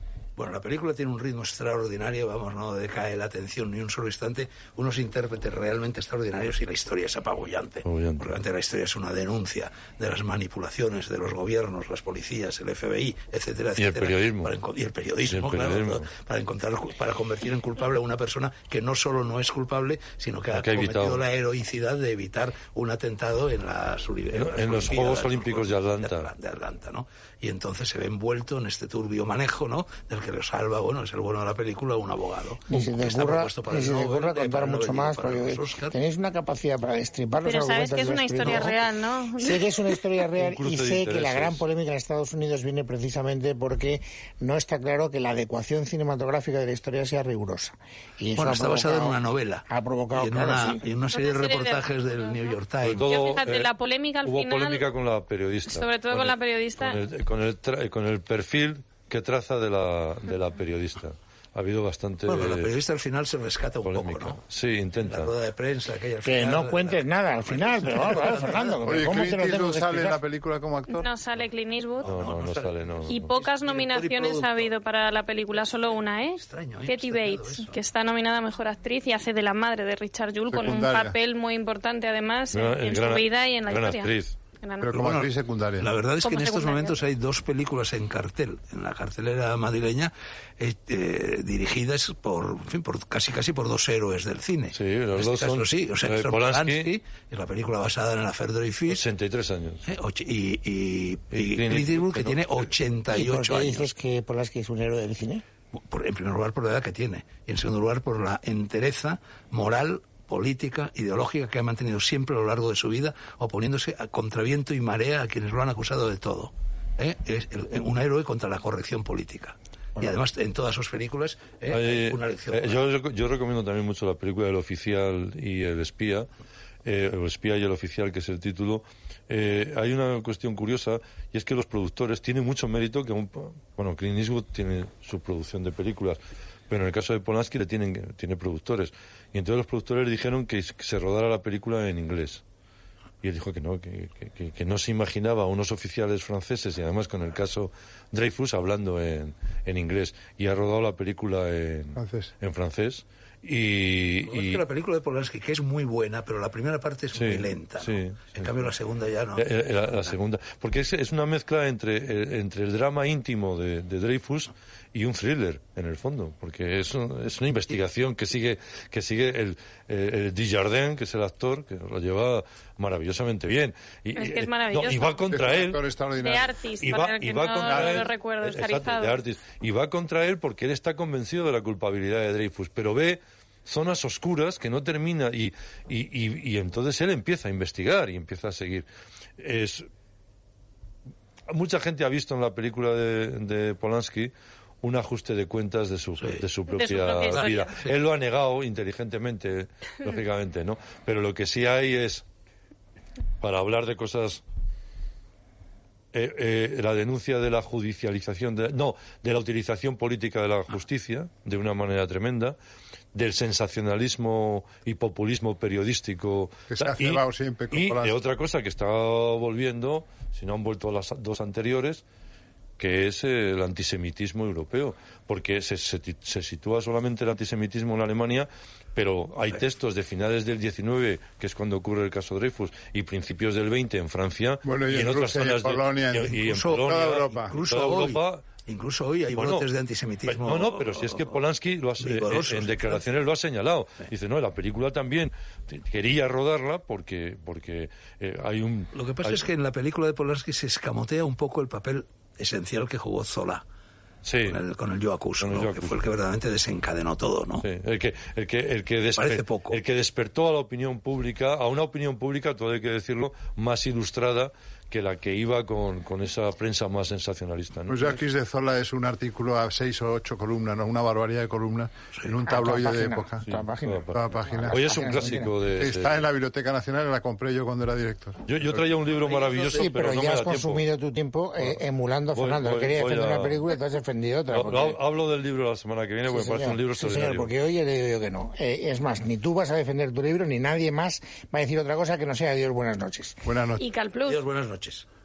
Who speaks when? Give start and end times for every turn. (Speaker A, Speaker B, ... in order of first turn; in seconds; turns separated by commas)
Speaker A: 0.4-36.0, Speaker B: 7.8-8.4, Speaker B: 13.8-14.5, Speaker B: 15.3-16.1, Speaker B: 20.5-21.2, Speaker B: 24.3-26.3, Speaker C: 32.7-38.8, Speaker D: 37.4-39.6, Speaker C: 39.4-50.8, Speaker B: 40.4-41.6, Speaker A: 48.4-53.1, Speaker D: 51.1-52.5, Speaker B: 52.8-53.7, Speaker D: 53.0-54.8, Speaker B: 54.2-62.7, Speaker D: 55.6-57.0, Speaker A: 62.2-64.4, Speaker B: 63.8-65.3, Speaker A: 65.0-69.1, Speaker C: 66.2-70.2, Speaker E: 68.8-71.1, Speaker D: 70.9-72.1, Speaker A: 72.0-74.7, Speaker B: 72.0-73.3, Speaker D: 73.1-85.2, Speaker A: 76.3-77.8, Speaker E: 80.5-81.2, Speaker B: 82.5-84.3, Speaker E: 84.8-85.9, Speaker A: 84.9-99.0, Speaker D: 86.2-87.0, Speaker B: 94.7-96.9, Speaker B: 98.9-99.8, Speaker A: 99.8-103.9, Speaker B: 101.3-102.5, Speaker C: 103.1-105.4, Speaker A: 105.7-122.8, Speaker B: 121.7-126.3, Speaker B: 126.8-142.4, Speaker B: 143.2-154.6, Speaker E: 152.0-152.3, Speaker A: 154.3-160.1, Speaker B: 157.1-158.7, Speaker B: 159.3-175.8, Speaker D: 174.2-175.3, Speaker E: 175.3-176.5, Speaker D: 176.2-179.2, Speaker B: 176.8-188.9, Speaker E: 177.6-178.1, Speaker B: 189.4-189.9, Speaker B: 191.5-202.2, Speaker A: 196.2-196.4, Speaker D: 196.7-197.7, Speaker A: 197.3-197.9, Speaker B: 203.4-204.4, Speaker B: 206.1-212.6, Speaker B: 213.1-222.0, Speaker E: 216.7-218.1, Speaker B: 222.8-238.5, Speaker E: 234.6-237.5, Speaker A: 236.4-241.4, Speaker B: 239.3-239.7, Speaker B: 240.3-249.4, Speaker A: 242.0-243.0, Speaker A: 248.9-253.6, Speaker B: 254.2-254.6, Speaker A: 254.4-257.6, Speaker B: 255.4-256.0, Speaker B: 257.6-268.0, Speaker A: 259.1-259.8, Speaker E: 267.9-273.5, Speaker C: 272.4-275.6, Speaker B: 273.9-276.2, Speaker E: 274.1-278.8, Speaker B: 278.5-280.9, Speaker A: 279.1-279.9, Speaker C: 279.8-285.0, Speaker B: 282.3-283.6, Speaker B: 284.5-287.5, Speaker C: 286.3-293.4, Speaker E: 293.4-293.8, Speaker D: 293.8-294.4, Speaker A: 294.3-295.1